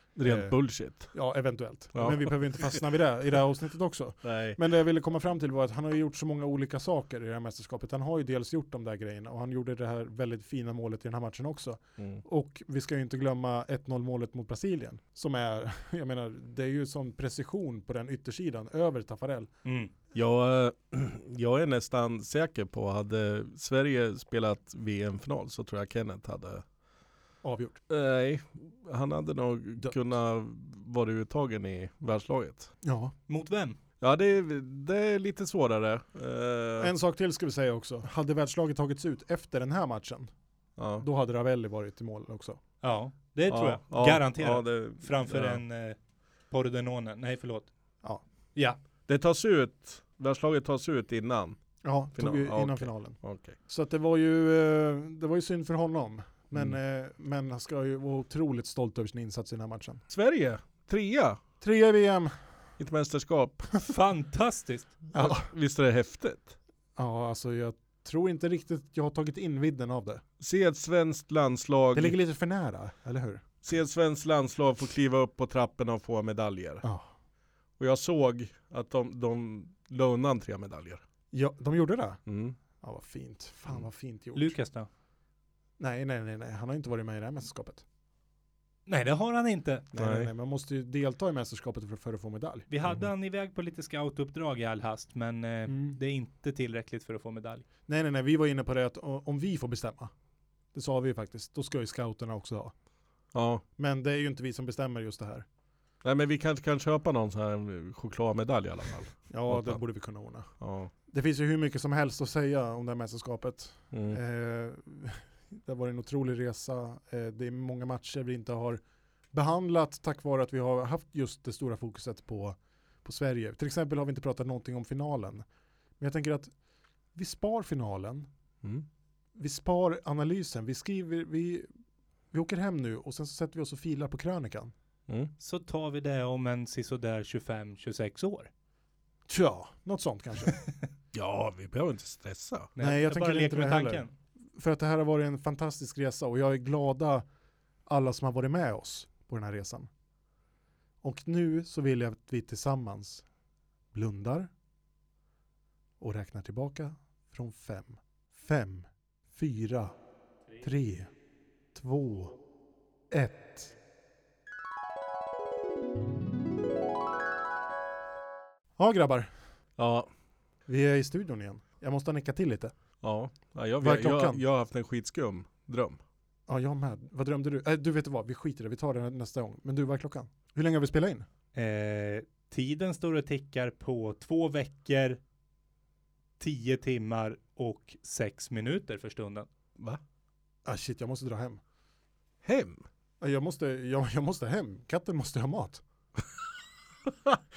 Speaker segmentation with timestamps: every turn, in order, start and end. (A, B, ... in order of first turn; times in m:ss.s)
0:00.2-0:01.1 A
0:00.2-0:00.5 B
0:01.1-0:19.5 B
0:01.9-0:02.8 A
0:04.2-0:04.6 A
0:19.6-0:19.9 C
0:20.1-0:26.6 A
0:27.4-0:27.8 B
0:27.9-0:32.7 A
0:32.8-0:33.1 B
0:33.3-0:33.8 C
0:34.0-0:36.9 A
0:36.8-0:40.3 B
0:40.8-0:41.0 A
0:41.0-0:42.6 B
0:42.8-0:46.0 C
0:43.5-0:45.6 A
0:46.5-0:47.7 C
0:49.1-0:51.6 A
0:51.8-1:00.0 B
0:52.2-0:53.5 A
1:00.1-1:01.4 A
1:01.6-1:02.4 B
1:02.8-1:03.7 A
1:03.8-1:05.0 C
1:05.1-1:05.5 B
1:05.1-1:06.6 A
1:07.0-1:10.2 B
1:10.4-1:12.2 A
1:11.9-1:13.4 B
1:13.6-1:16.8 A
1:17.8-1:21.0 A
1:21.3-1:22.2 B
1:22.3-1:22.6 A
1:22.8-1:24.5 B
1:24.4-1:24.9 C
1:25.8-1:27.8 B
1:28.9-1:29.9 C
1:29.9-1:30.3 A
1:29.9-1:32.6 B
1:32.7-1:37.6 C
1:35.7-1:36.0 B
1:37.9-1:40.1 B
1:40.7-1:42.7 B
1:43.3-1:43.6 A
1:43.8-1:45.4 B
1:46.0-1:49.8 A
1:49.3-1:50.5 B
1:50.6-1:50.9 A
1:51.1-1:58.8 B
1:53.9-1:54.2 A
1:59.3-2:05.4 B
2:06.0-2:06.5 B
2:07.1-2:08.3 B
2:09.4-2:11.7 B
2:12.3-2:14.7 B
2:15.4-2:18.5 C
2:19.3-2:20.6 B
2:21.1-2:22.7 A
2:22.8-2:24.1 C
2:22.8-2:24.0 B
2:24.6-2:27.2 B
2:27.8-2:29.9 B
2:31.0-2:33.2 B
2:33.9-2:34.5 B
2:36.0-2:39.9 B
2:40.6-2:41.1 B
2:41.7-2:42.3 B
2:43.1-2:43.7 B
2:48.8-2:49.3 B
2:49.8-2:50.1 A
2:50.7-2:52.7 B
2:53.0-2:56.0 A
2:53.8-2:54.4 B
2:56.5-3:01.2 B
3:01.5-3:05.2 C
3:06.4-3:09.5 C
3:10.6-3:11.6 B
3:12.4-3:12.8 A
3:13.2-3:15.8 B
3:17.0-3:17.4 A